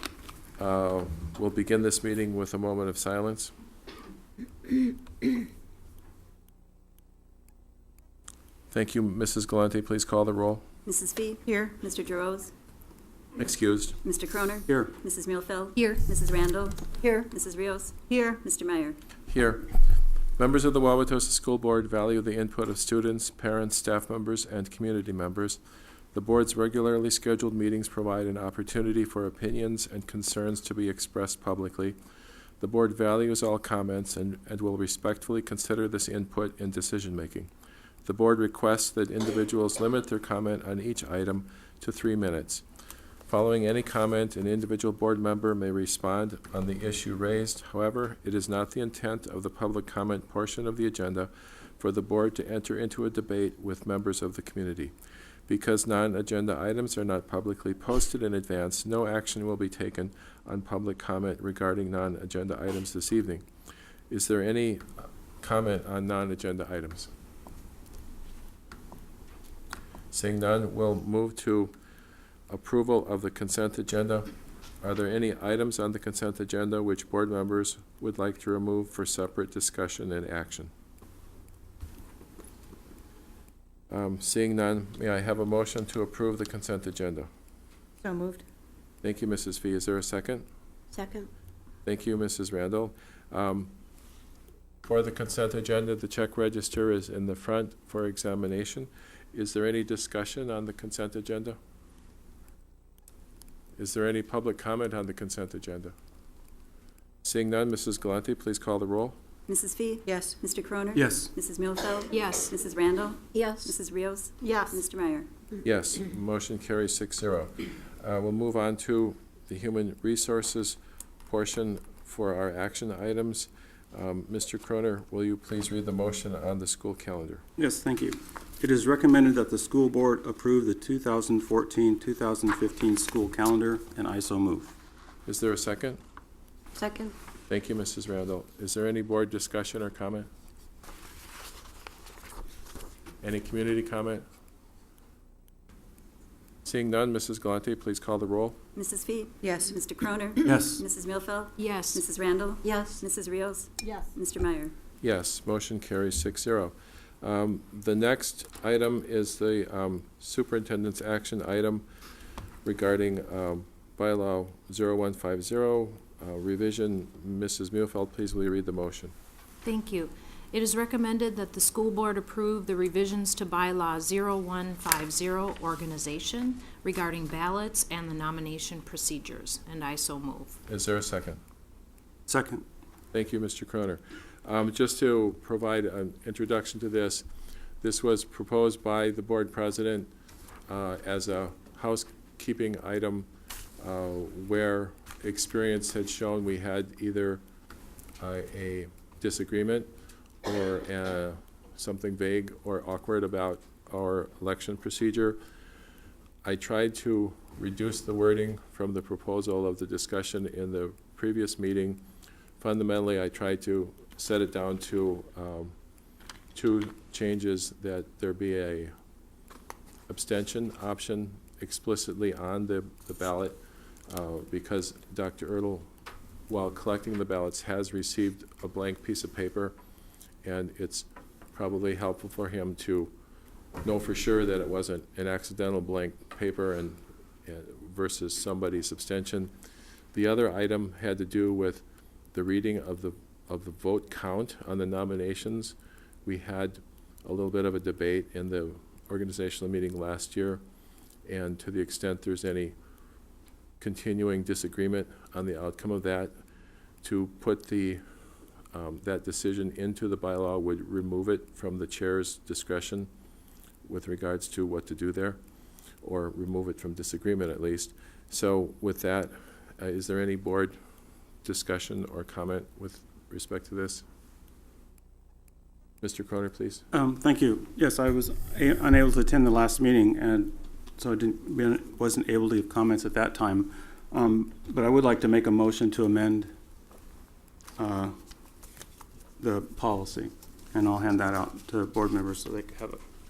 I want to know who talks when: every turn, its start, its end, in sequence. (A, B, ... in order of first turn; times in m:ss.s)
0:00.6-0:03.5 A
0:08.7-0:10.6 A
0:10.8-0:12.5 B
0:11.4-0:11.8 C
0:13.4-0:14.0 A
0:14.0-0:19.0 B
0:15.8-0:16.0 C
0:16.9-0:17.3 C
0:18.1-0:18.3 C
0:19.3-0:19.7 A
0:20.4-0:25.6 A
0:26.1-0:32.0 A
0:32.6-0:37.5 A
0:38.0-0:42.6 A
0:43.3-0:54.9 A
0:55.5-1:03.4 A
1:04.1-1:07.1 A
1:10.1-1:11.7 A
1:12.5-1:14.3 A
1:14.8-1:20.7 A
1:23.9-1:27.3 A
1:28.0-1:28.4 C
1:29.0-1:30.4 A
1:30.9-1:31.3 C
1:31.8-1:33.7 A
1:34.8-1:41.6 A
1:43.8-1:45.9 A
1:47.2-1:49.2 A
1:49.5-1:55.3 B
1:50.0-1:50.3 C
1:50.9-1:51.3 D
1:52.1-1:52.5 E
1:53.3-1:53.7 C
1:54.4-1:54.8 C
1:55.6-2:07.4 A
2:07.6-2:14.7 D
2:15.2-2:16.0 A
2:16.8-2:17.1 C
2:17.5-2:20.3 A
2:23.2-2:24.2 A
2:26.6-2:28.6 A
2:28.7-2:34.7 B
2:29.4-2:29.8 C
2:30.4-2:30.8 D
2:31.6-2:32.0 E
2:33.8-2:34.1 C
2:35.0-2:41.8 A
2:42.6-2:49.1 A
2:49.6-3:00.6 E
3:00.7-3:01.4 A
3:02.3-3:02.6 D
3:03.1-3:07.2 A
3:07.8-3:10.1 A
3:10.7-3:13.3 A
3:13.8-3:17.4 A
3:18.2-3:19.9 A
3:20.4-3:25.4 A
3:26.4-3:32.0 A
3:32.6-3:35.7 A
3:36.5-3:38.9 A
3:40.1-3:45.9 A
3:46.5-3:49.7 A
3:50.4-3:53.1 A
3:53.8-3:59.5 A
4:00.1-4:01.8 A
4:02.3-4:10.6 A
4:11.2-4:12.7 A
4:13.8-4:16.3 A
4:17.0-4:18.0 A
4:18.7-4:23.1 A
4:23.8-4:25.4 A
4:26.0-4:30.8 A
4:31.4-4:34.0 A
4:36.0-4:36.8 A
4:36.9-4:46.5 D
4:47.8-4:48.1 D
4:49.4-4:53.0 D